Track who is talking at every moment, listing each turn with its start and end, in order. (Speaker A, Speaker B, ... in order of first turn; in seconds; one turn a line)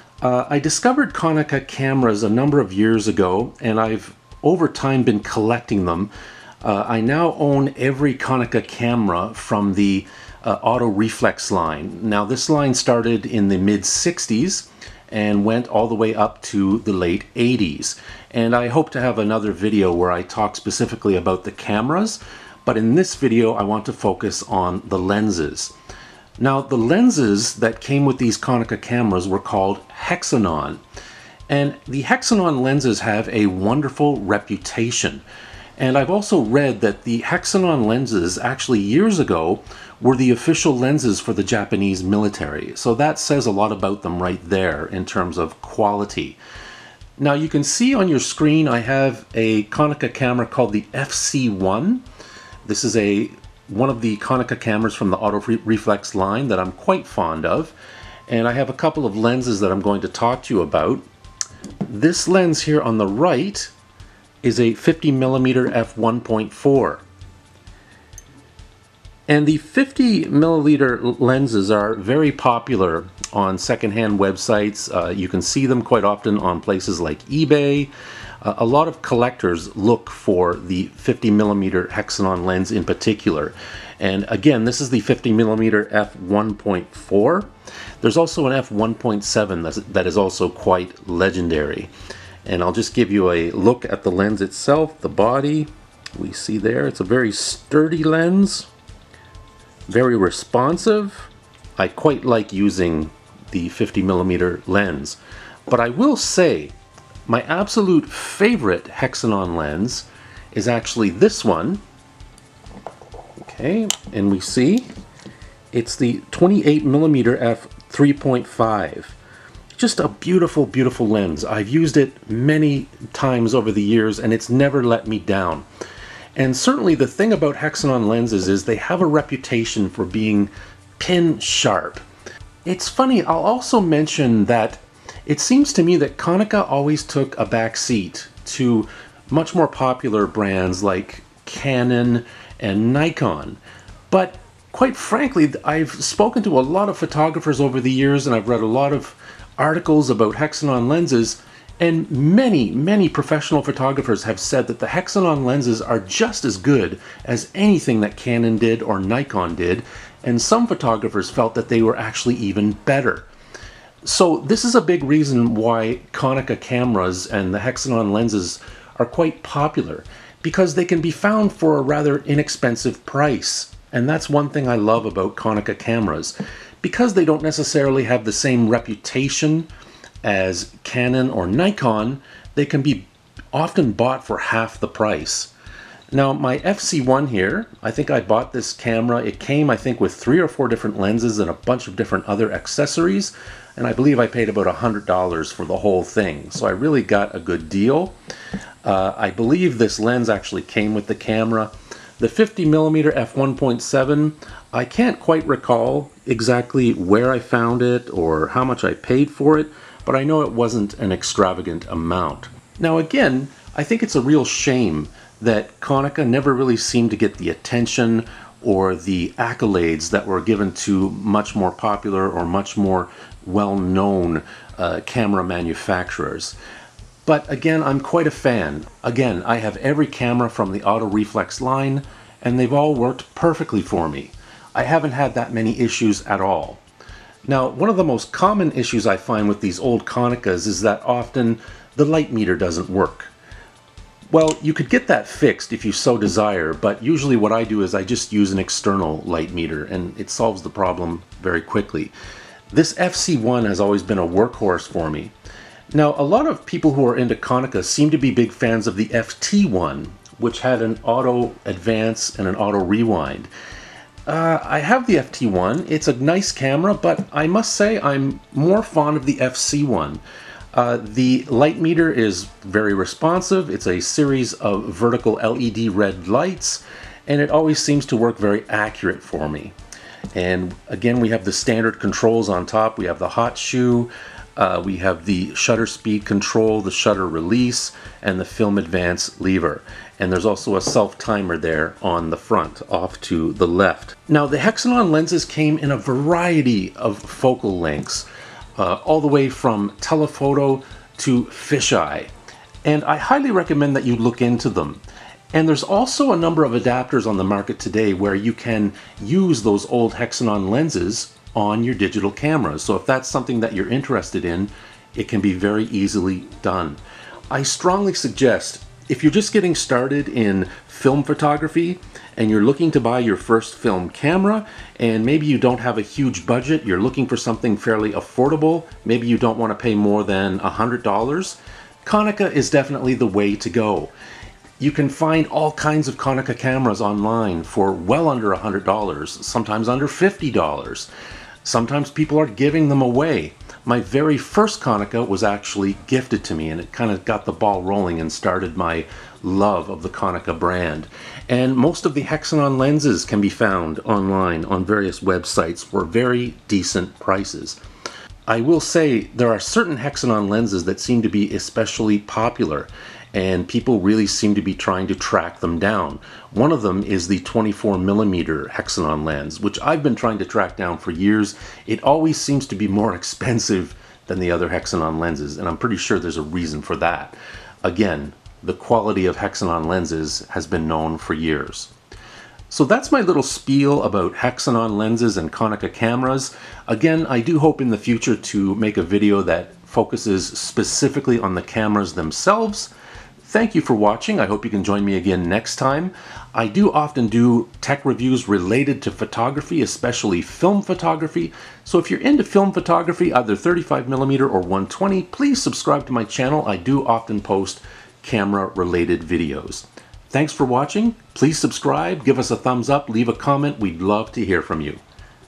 Speaker A: 0.2-6.1
Speaker A: 6.6-25.7
Speaker A: 26.4-30.8
Speaker A: 31.5-35.2
Speaker A: 35.8-46.4
Speaker A: 47.2-52.0
Speaker A: 52.6-57.8
Speaker A: 58.3-61.1
Speaker A: 61.9-63.7
Speaker A: 64.4-67.0
Speaker A: 69.3-87.5
Speaker A: 88.0-91.9
Speaker A: 92.5-98.7
Speaker A: 99.9-106.8
Speaker A: 107.3-111.8
Speaker A: 113.4-114.9
Speaker A: 115.7-119.2
Speaker A: 119.8-125.7
Speaker A: 126.3-132.0
Speaker A: 132.7-163.3
Speaker A: 164.0-179.7
Speaker A: 180.2-185.5
Speaker A: 186.1-198.2
Speaker A: 198.8-226.6
Speaker A: 227.2-236.8
Speaker A: 237.5-243.3
Speaker A: 244.3-252.1
Speaker A: 252.7-255.3
Speaker A: 255.9-263.5
Speaker A: 264.3-270.2
Speaker A: 270.7-279.7
Speaker A: 280.4-302.3
Speaker A: 302.8-305.0
Speaker A: 305.5-317.0
Speaker A: 317.5-334.1
Speaker A: 334.8-341.1
Speaker A: 341.6-357.8
Speaker A: 358.5-381.9
Speaker A: 382.7-392.9
Speaker A: 393.4-415.0